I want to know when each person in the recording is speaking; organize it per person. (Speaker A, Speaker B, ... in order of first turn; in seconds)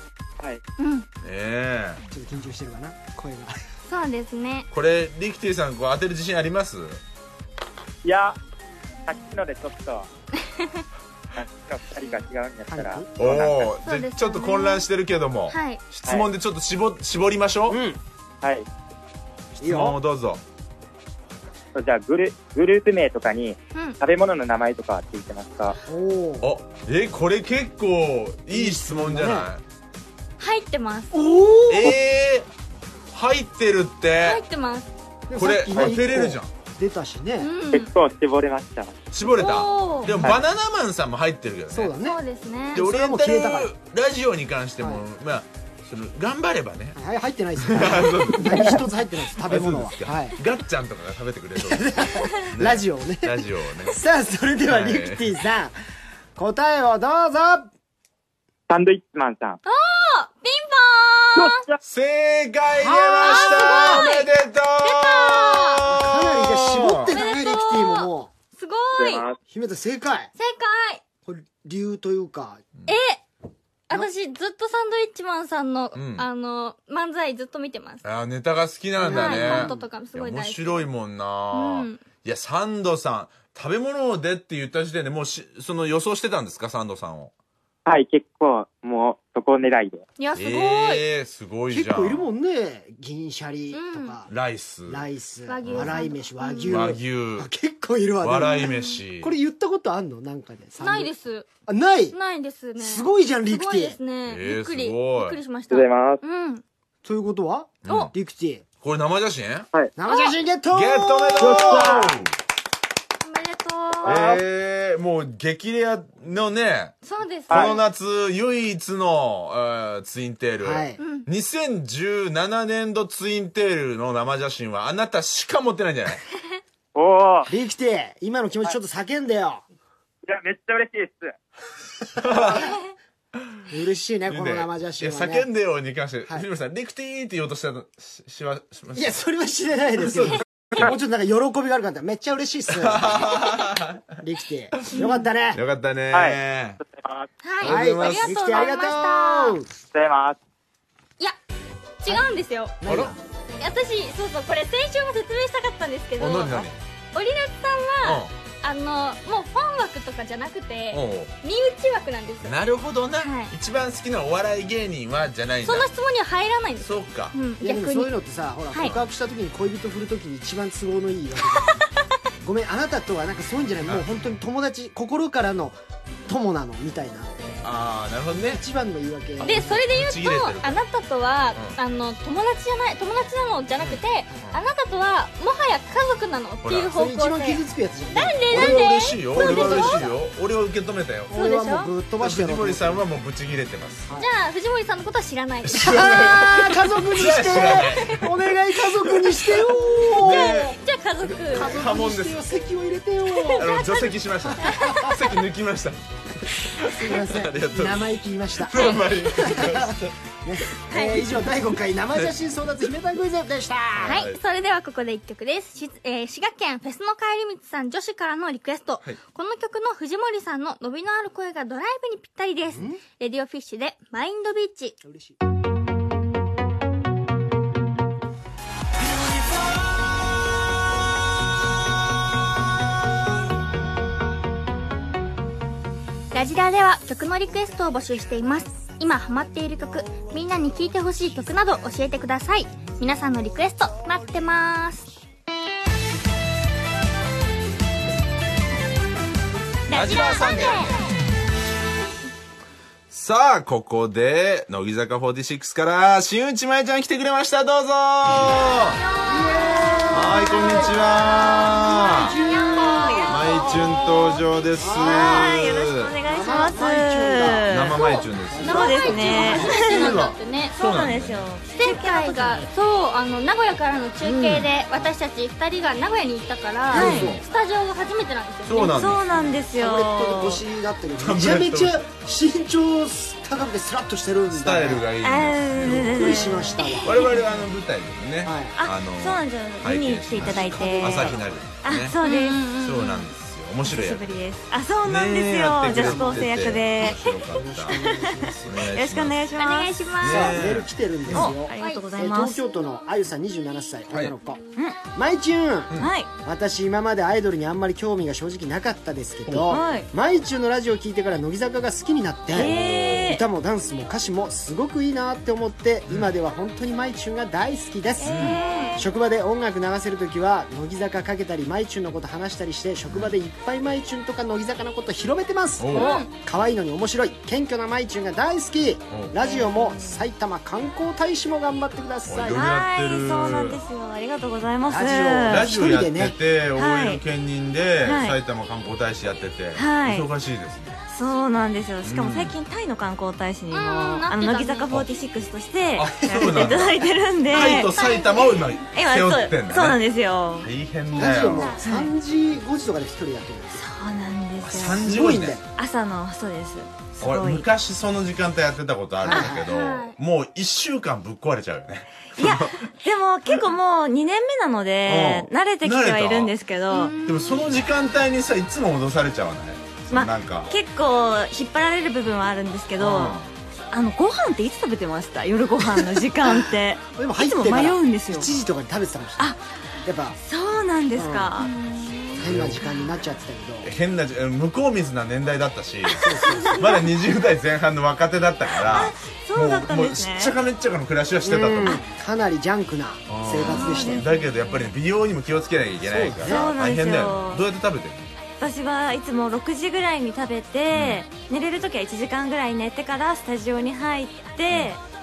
Speaker A: 0.8-1.1, 3.9-4.7, 13.8-14.8, 15.5-15.8, 30.4-31.1, 34.2-34.9, 37.4-37.9, 39.3-40.1, 42.0-42.8, 59.6-61.6, 63.2-64.3, 64.8-65.8, 67.0-69.2, 70.4-71.0, 72.9-73.2, 73.9-78.0, 79.0-80.8, 81.5-82.0, 90.2-91.0, 93.7-94.2, 95.5-96.8, 98.5-99.0, 100.8-101.5, 102.1-106.6, 110.1-110.3, 113.2-114.3, 117.0-117.8, 121.0-121.3, 147.4-149.6, 152.0-152.7, 153.6-162.6, 163.2-163.5, 165.6-168.1, 179.4-190.0, 191.3-191.9, 194.2-196.3, 200.2-201.7, 203.4-204.9, 208.8-209.2, 210.9-211.2, 214.1-225.0, 236.3-245.1, 249.9-250.9, 258.7-260.8, 261.5-263.8, 267.9-270.7, 271.7-279.1, 286.8-287.1, 292.2-293.2, 299.6-300.5, 301.8-302.1, 318.2-319.0, 325.9-326.3, 343.7-344.9, 347.8-348.7, 351.2-351.8, 359.5-360.1, 366.9-367.6
Speaker B: 1.2-2.0, 4.7-7.0, 13.2-17.8, 19.6-20.4, 26.4-29.6, 31.7-32.5, 33.1-34.4, 35.4-36.5, 39.1-41.9, 42.7-47.0, 47.6-48.8, 49.4-54.0, 54.7-55.3, 61.8-67.1, 75.9-76.2, 78.0-87.3, 90.3-92.2, 94.3-95.1, 95.7-95.9, 96.7-97.5, 98.2-99.3, 104.2-105.4, 107.8-108.1, 108.8-109.7, 110.7-112.2, 114.0-117.0, 117.5-126.2, 132.2-132.7, 134.3-139.2, 140.0-140.8, 142.8-144.0, 145.5-146.8, 147.6-148.4, 152.9-153.1, 156.2-156.8, 158.0-158.3, 160.9-161.3, 162.4-165.9, 166.8-167.3, 177.6-178.6, 179.5-180.8, 183.8-184.6, 186.6-186.9, 188.5-191.3, 192.2-194.1, 195.7-198.4, 198.9-202.4, 203.6-210.1, 213.9-214.4, 249.9-251.0, 253.1-259.0, 260.1-262.4, 263.3-266.1, 267.7-271.4, 274.3-274.7, 276.9-277.4, 278.6-279.5, 281.2-282.0, 284.5-292.1, 292.8-294.4, 295.0-298.0, 298.6-299.4, 300.2-301.5, 309.5-309.8, 312.5-313.4, 318.3-318.5, 323.1-323.3, 325.8-326.1, 329.1-329.4, 332.2-333.8, 335.5-341.0, 342.0-342.6, 346.0-350.0, 350.6-351.8, 354.6-355.6, 357.2-362.9, 365.1-366.5, 367.2-370.7, 373.0-373.5, 382.4-382.8, 383.8-392.0, 393.3-398.3, 400.9-401.2, 404.7-404.9
Speaker C: 2.1-3.6, 12.7-13.1, 17.7-18.0, 19.6-20.0, 25.8-26.5, 28.5-29.5, 31.1-32.0, 35.3-37.5, 40.0-40.4, 41.7-42.2, 42.7-43.7, 47.0-50.4, 51.6-55.8, 56.4-57.7, 62.8-64.0, 65.8-68.3, 69.5-70.3, 71.2-72.6, 79.0-79.9, 91.7-94.3, 94.9-101.1, 101.7-102.2, 102.8-104.0, 107.0-108.6, 110.0-112.2, 120.6-121.0, 127.5-129.6, 132.2-132.6, 133.7-135.5, 138.9-143.5, 144.2-145.6, 147.6-149.7, 152.8-153.2, 167.6-171.9, 172.4-177.6, 178.4-179.8, 186.9-190.2, 191.3-193.0, 195.7-200.7, 201.5-203.7, 204.5-205.2, 206.8-214.2, 222.7-223.0, 225.0-225.3, 259.2-265.6, 266.2-270.0, 276.9-277.4, 279.7-285.1, 285.9-287.1, 288.4-288.7, 290.4-291.4, 295.9-296.5, 297.5-298.8, 300.2-304.6, 305.1-305.9, 306.4-312.7, 313.2-332.6, 334.9-336.4, 346.4-346.8, 351.1-353.8, 354.8-355.6, 359.2-359.7, 375.8-379.5, 380.0-380.4, 381.1-381.6, 382.3-383.9, 386.2-386.8, 391.4-394.2, 396.0-396.7
Speaker D: 8.0-8.4, 9.1-10.1, 11.3-13.6, 21.7-25.8, 37.7-39.0, 58.7-59.6, 61.4-61.8, 69.0-69.4, 87.8-90.0, 105.7-106.2, 111.4-112.1, 114.0-114.4, 126.9-127.5, 130.2-131.3, 146.1-147.3, 149.9-150.4
Speaker E: 262.8-263.3, 265.0-268.0, 268.6-270.2, 270.7-272.7, 276.9-277.4, 278.7-280.6, 285.2-287.4, 288.8-292.8, 293.8-297.4, 298.0-300.0, 301.3-302.6, 306.0-306.3, 309.7-310.1, 312.5-313.4, 318.4-319.1, 329.4-330.2, 332.5-335.7, 336.8-337.2, 338.0-338.4, 339.7-340.3, 341.1-347.9, 348.9-350.7, 351.8-352.1, 353.7-357.6, 362.4-367.1, 370.1-373.4, 373.9-378.5, 380.4-382.9, 386.5-387.0, 388.8-390.6, 393.6-394.9, 396.4-397.6, 398.6-405.0